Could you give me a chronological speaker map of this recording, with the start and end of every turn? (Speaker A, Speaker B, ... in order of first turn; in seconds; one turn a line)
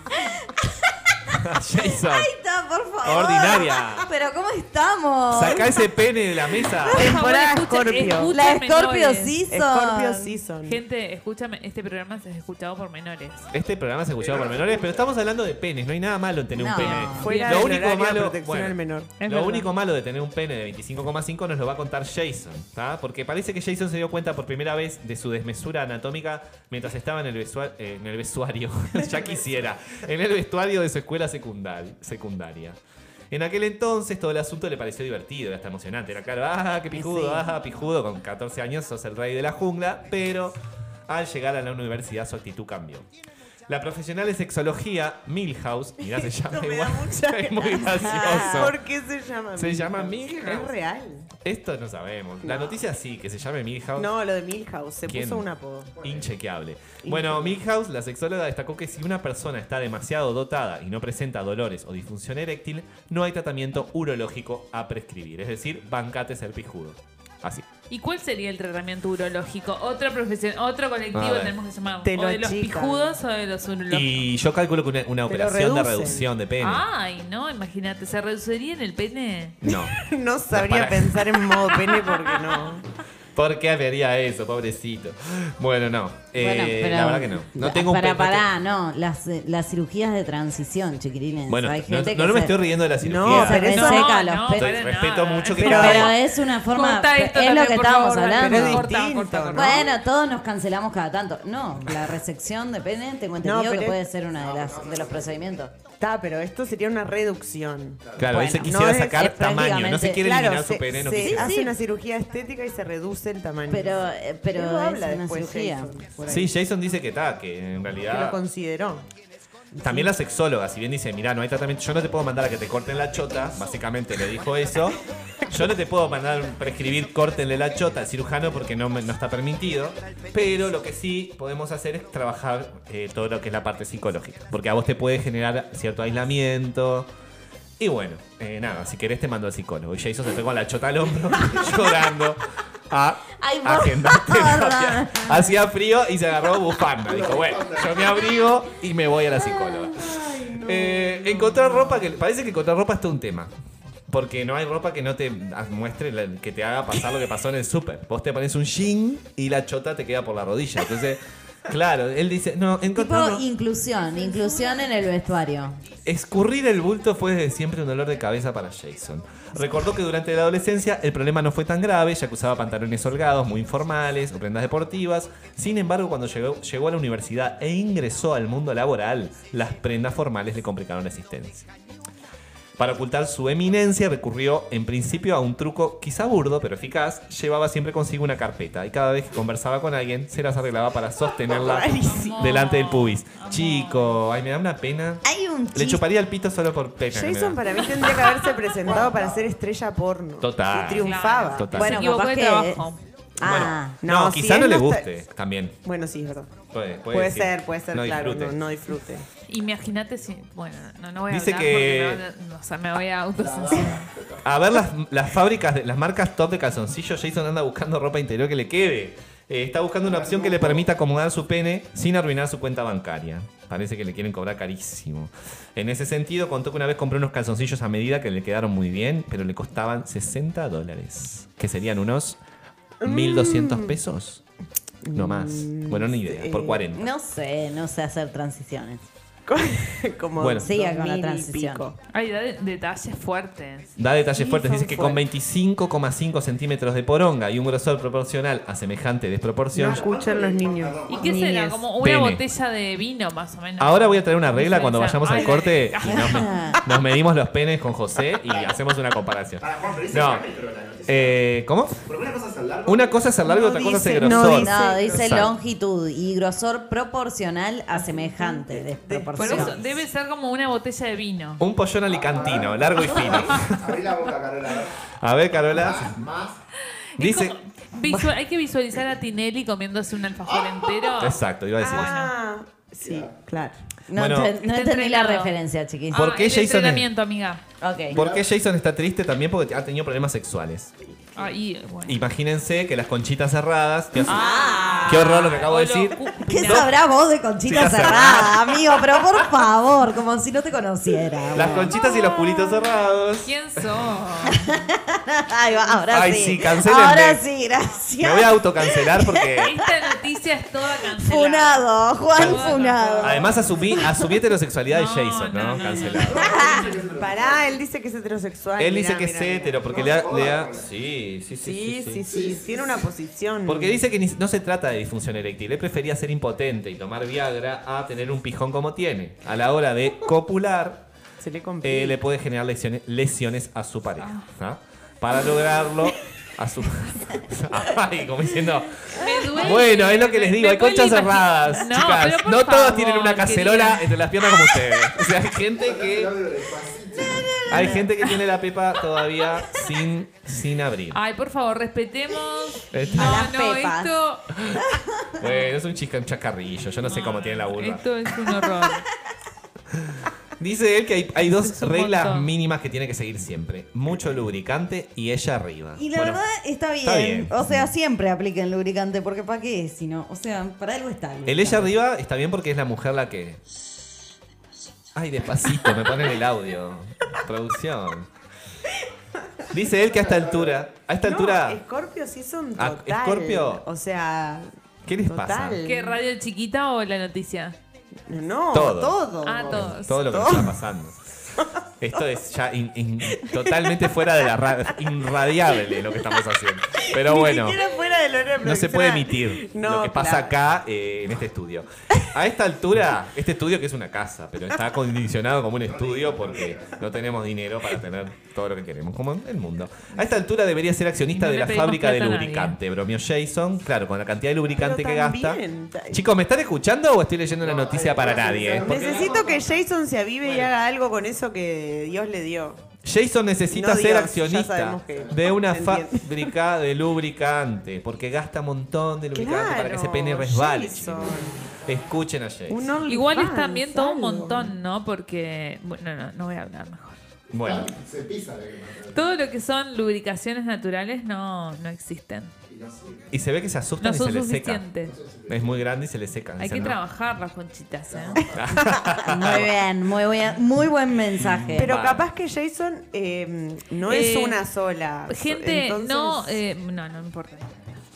Speaker A: 0.2-1.3
Speaker B: 1.4-2.3
Speaker A: 1.9-5.8
Speaker B: 3.0-4.1
Speaker B: 5.3-7.1
Speaker C: 6.9-8.3
Speaker D: 6.9-9.3
Speaker A: 8.3-10.3
Speaker C: 9.5-10.8
Speaker D: 10.6-13.5
Speaker B: 13.5-32.8
Speaker E: 14.2-15.1
Speaker A: 16.5-17.3
Speaker C: 16.8-19.1
Speaker D: 17.1-17.8
Speaker D: 19.2-19.7
Speaker B: 33.3-43.1
Speaker A: 36.9-37.5
Speaker B: 43.7-48.8
Speaker C: 46.0-51.3
Speaker B: 49.5-50.7
Speaker B: 51.4-54.1
Speaker C: 52.4-52.8
Speaker C: 54.0-56.0
Speaker B: 55.1-55.5
Speaker E: 56.0-56.3
Speaker B: 56.0-67.7
Speaker C: 57.0-57.6
Speaker D: 67.9-74.2
Speaker B: 71.1-71.5
Speaker C: 72.0-73.1
Speaker B: 73.9-76.8
Speaker C: 75.3-76.2
Speaker D: 76.6-79.6
Speaker B: 79.6-81.4
Speaker C: 79.6-82.8
Speaker B: 83.3-88.5
Speaker A: 86.3-92.6
Speaker B: 91.5-93.7
Speaker C: 93.0-94.2
Speaker A: 93.2-94.8
Speaker D: 93.5-96.1
Speaker B: 94.5-96.2
Speaker A: 95.6-98.8
Speaker C: 95.6-96.1
Speaker D: 96.6-99.8
Speaker C: 98.4-99.9
Speaker A: 99.5-105.7
Speaker C: 103.4-104.0
Speaker E: 104.3-105.6
Speaker C: 106.0-108.0
Speaker E: 108.0-108.4
Speaker B: 108.2-111.6
Speaker A: 108.3-110.2
Speaker C: 108.6-109.3
Speaker C: 110.1-114.0
Speaker A: 111.2-111.8
Speaker A: 113.7-115.9
Speaker C: 114.5-116.5
Speaker B: 116.3-118.4
Speaker C: 118.0-119.1
Speaker A: 119.8-120.1
Speaker B: 119.8-137.1
Speaker B: 137.8-153.5
Speaker A: 143.4-145.6
Speaker E: 147.1-148.3
Speaker A: 149.3-152.1
Speaker B: 154.1-163.4
Speaker A: 162.9-165.8
Speaker B: 166.1-181.7
Speaker B: 182.8-198.3
Speaker C: 191.4-192.4
Speaker D: 192.1-194.2
Speaker A: 195.2-196.0
Speaker C: 197.1-201.8
Speaker E: 199.0-199.4
Speaker B: 200.4-202.1
Speaker D: 201.0-203.1
Speaker A: 201.7-204.0
Speaker B: 203.4-205.8
Speaker C: 204.0-205.1
Speaker C: 205.8-206.6
Speaker B: 206.7-208.6
Speaker C: 207.1-209.3
Speaker D: 209.5-214.1
Speaker B: 211.3-212.2
Speaker E: 213.4-214.4
Speaker B: 214.4-232.4
Speaker E: 220.0-220.9
Speaker C: 233.0-233.9
Speaker B: 233.0-234.4
Speaker C: 235.0-236.8
Speaker B: 235.1-237.1
Speaker A: 236.9-239.0
Speaker C: 239.5-242.0
Speaker B: 240.4-240.7
Speaker A: 240.6-241.8
Speaker D: 242.1-243.9
Speaker B: 244.0-250.1
Speaker C: 244.3-245.2
Speaker C: 249.7-251.8
Speaker E: 249.8-251.4
Speaker D: 251.1-256.5
Speaker B: 252.0-252.4
Speaker B: 253.8-260.4
Speaker A: 256.1-256.8
Speaker E: 258.4-258.8
Speaker E: 259.6-261.4
Speaker B: 261.1-262.1
Speaker E: 262.1-263.3
Speaker B: 262.9-265.5
Speaker C: 263.4-265.5
Speaker A: 264.2-269.8
Speaker C: 267.9-269.8
Speaker D: 269.4-271.6
Speaker B: 271.6-273.9
Speaker E: 272.1-275.1
Speaker B: 275.2-276.2
Speaker E: 275.7-276.6
Speaker D: 277.2-282.3
Speaker B: 277.2-277.6
Speaker E: 280.6-280.9
Speaker B: 281.2-282.1
Speaker C: 281.8-283.8
Speaker E: 283.0-283.4
Speaker A: 284.1-286.2
Speaker B: 284.1-284.6
Speaker C: 284.7-285.5
Speaker D: 284.8-285.4
Speaker D: 286.1-287.6
Speaker B: 286.1-287.1
Speaker A: 287.8-288.2
Speaker B: 288.1-290.9
Speaker E: 288.1-288.4
Speaker D: 291.4-292.2
Speaker B: 292.1-294.4
Speaker A: 294.2-295.7
Speaker D: 294.2-296.9
Speaker B: 295.1-296.9
Speaker A: 296.4-302.4
Speaker B: 297.6-299.0
Speaker B: 301.5-303.5
Speaker D: 303.4-304.7
Speaker A: 304.5-309.7
Speaker B: 306.1-307.4
Speaker B: 308.2-309.7
Speaker D: 309.6-313.5
Speaker A: 311.2-314.3
Speaker B: 312.3-316.5
Speaker C: 312.8-313.5
Speaker D: 314.9-316.2
Speaker E: 316.1-317.8
Speaker C: 316.4-319.9
Speaker B: 318.8-322.2
Speaker E: 319.9-320.9
Speaker C: 321.6-324.0
Speaker E: 322.2-323.1
Speaker B: 323.7-331.1
Speaker C: 331.4-332.2
Speaker B: 331.8-346.5
Speaker D: 334.2-334.5
Speaker D: 339.1-344.1
Speaker E: 345.7-348.0
Speaker B: 347.6-351.2
Speaker D: 347.7-348.0
Speaker D: 351.1-354.5
Speaker B: 352.9-353.5
Speaker A: 353.1-354.1
Speaker B: 354.5-358.1
Speaker A: 354.7-355.3
Speaker D: 357.0-359.1
Speaker B: 359.9-366.4
Speaker D: 361.4-362.5
Speaker A: 366.0-371.9
Speaker B: 367.0-367.9
Speaker B: 371.4-373.6
Speaker B: 375.1-378.3
Speaker B: 379.7-381.8
Speaker E: 380.0-380.8
Speaker C: 381.2-384.7
Speaker B: 382.8-383.8
Speaker B: 385.0-385.8
Speaker C: 385.2-386.2
Speaker D: 385.8-387.8
Speaker C: 388.3-390.8
Speaker B: 388.7-389.2
Speaker D: 389.4-390.2
Speaker B: 389.7-391.2
Speaker C: 391.6-392.2
Speaker B: 392.0-397.8
Speaker C: 393.3-394.2
Speaker C: 395.9-396.3
Speaker C: 397.0-400.5
Speaker B: 398.6-419.3
Speaker E: 405.8-407.0
Speaker D: 411.3-412.8
Speaker C: 414.7-416.2
Speaker E: 417.6-419.8
Speaker C: 418.8-422.8
Speaker B: 423.0-432.9
Speaker C: 423.7-426.5
Speaker E: 425.1-425.3
Speaker C: 429.3-431.7
Speaker C: 432.7-434.7
Speaker D: 433.1-437.2
Speaker B: 437.5-437.9
Speaker E: 437.5-439.3
Speaker D: 439.1-442.5
Speaker E: 442.7-443.4
Speaker B: 443.3-444.9
Speaker D: 444.0-445.1
Speaker E: 445.0-445.8
Speaker B: 445.5-447.0
Speaker D: 446.6-448.4
Speaker E: 448.1-448.6
Speaker B: 448.5-449.7
Speaker A: 449.2-451.9
Speaker B: 451.3-452.3
Speaker C: 451.8-456.6
Speaker D: 454.1-454.6
Speaker D: 455.3-458.0